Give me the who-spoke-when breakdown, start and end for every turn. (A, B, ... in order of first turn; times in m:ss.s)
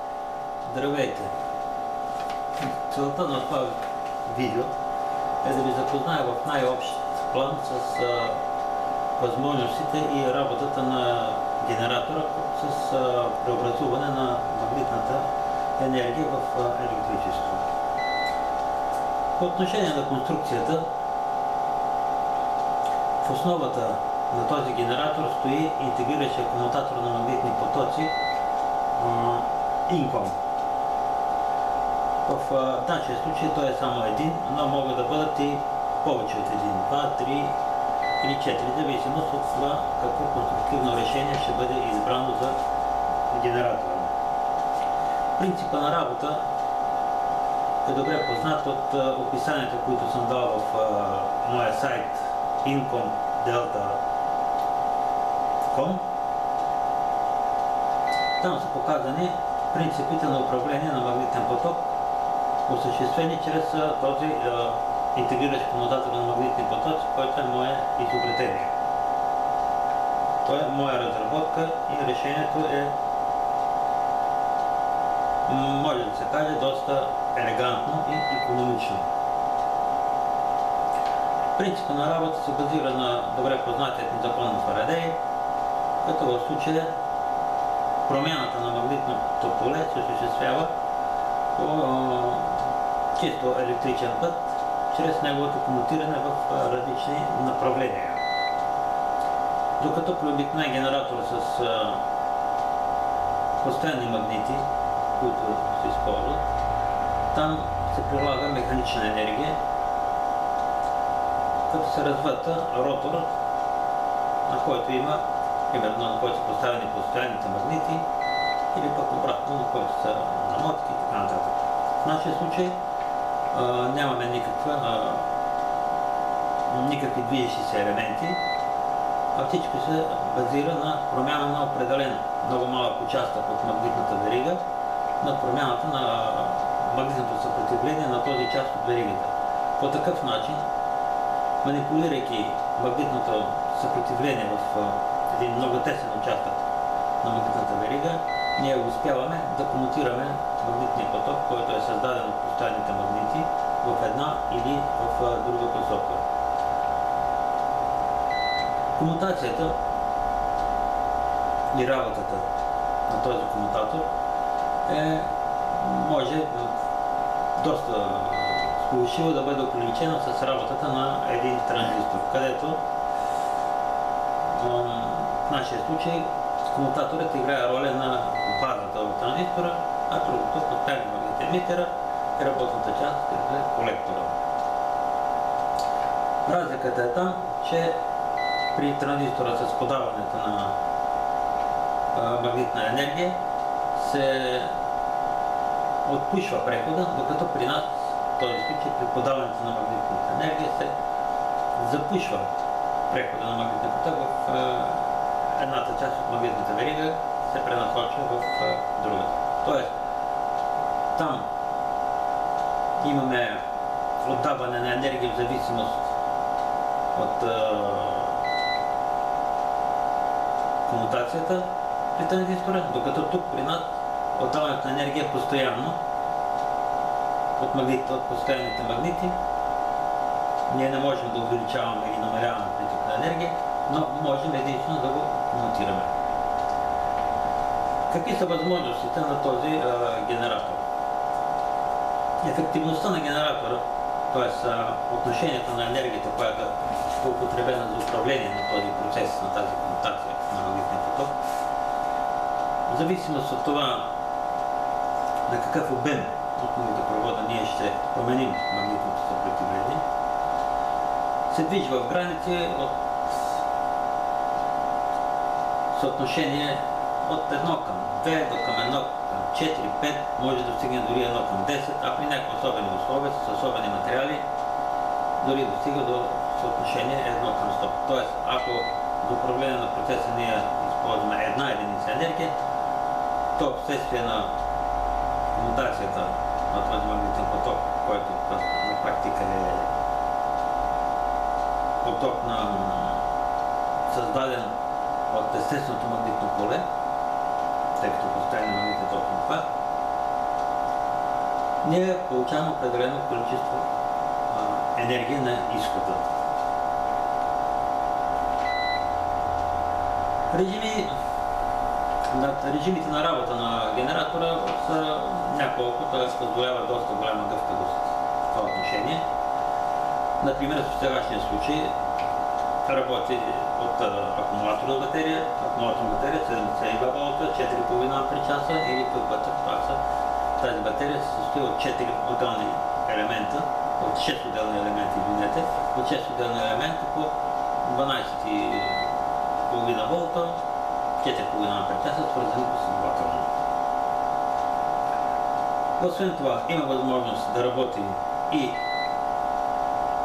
0:00.7-0:01.3 A
0:02.8-0:03.7 A
0:04.3-0:04.7 A
0:05.4-0:08.4 A
0:09.2-0:15.3 A
0:15.8-0:17.6 A
0:19.4-0:20.8 A
0:23.2-0:28.1 A
0:29.0-0:30.4 A
0:32.3-0:37.5 A
0:38.2-0:42.6 A
0:43.3-0:44.1 A
0:45.4-0:46.4 A
0:47.8-0:54.0 A
0:55.7-0:56.0 A
0:58.4-1:01.8 A
1:02.7-1:08.7 A
1:10.4-1:13.0 A
1:15.5-1:19.0 A
1:21.6-1:25.2 A
1:26.0-1:26.9 A
1:28.1-1:30.7 A
1:31.6-1:32.6 A
1:33.2-1:38.2 A
1:39.8-1:42.0 A
1:43.6-1:44.6 A
1:45.2-1:46.4 A
1:47.3-1:49.6 A
1:51.7-1:53.3 A
1:54.5-1:58.0 A
1:58.7-2:02.8 A
2:03.5-2:05.3 A
2:06.7-2:08.4 A
2:09.4-2:14.6 A
2:15.2-2:20.6 A
2:21.6-2:26.6 A
2:27.2-2:36.2 A
2:39.0-2:39.8 A
2:41.7-2:42.5 A
2:43.1-2:44.1 A
2:44.9-2:46.7 A
2:47.6-2:52.8 A
2:54.5-3:04.4 A
3:06.5-3:08.0 A
3:08.7-3:10.8 A
3:12.1-3:13.4 A
3:14.0-3:14.7 A
3:16.0-3:20.9 A
3:21.8-3:22.5 A
3:23.1-3:29.9 A
3:31.2-3:31.5 A
3:33.0-3:33.6 A
3:34.2-3:36.0 A
3:37.2-3:38.4 A
3:40.9-3:46.0 A
3:47.6-3:49.3 A
3:50.7-3:56.1 A
3:58.1-4:00.8 A
4:02.4-4:11.3 A
4:12.9-4:14.1 A
4:15.5-4:20.0 A
4:21.5-4:23.5 A
4:25.9-4:34.4 A
4:35.4-4:42.5 A
4:43.6-4:44.5 A
4:45.5-4:49.9 A
4:52.0-4:53.2 A
4:54.1-4:54.8 A
4:55.3-4:56.8 A
4:58.0-4:59.7 A
5:01.8-5:03.9 A
5:04.5-5:06.2 A
5:10.5-5:11.1 A
5:12.3-5:19.2 A
5:20.4-5:21.9 A
5:22.9-5:30.0 A
5:30.6-5:40.6 A
5:41.2-5:43.5 A
5:46.0-5:48.8 A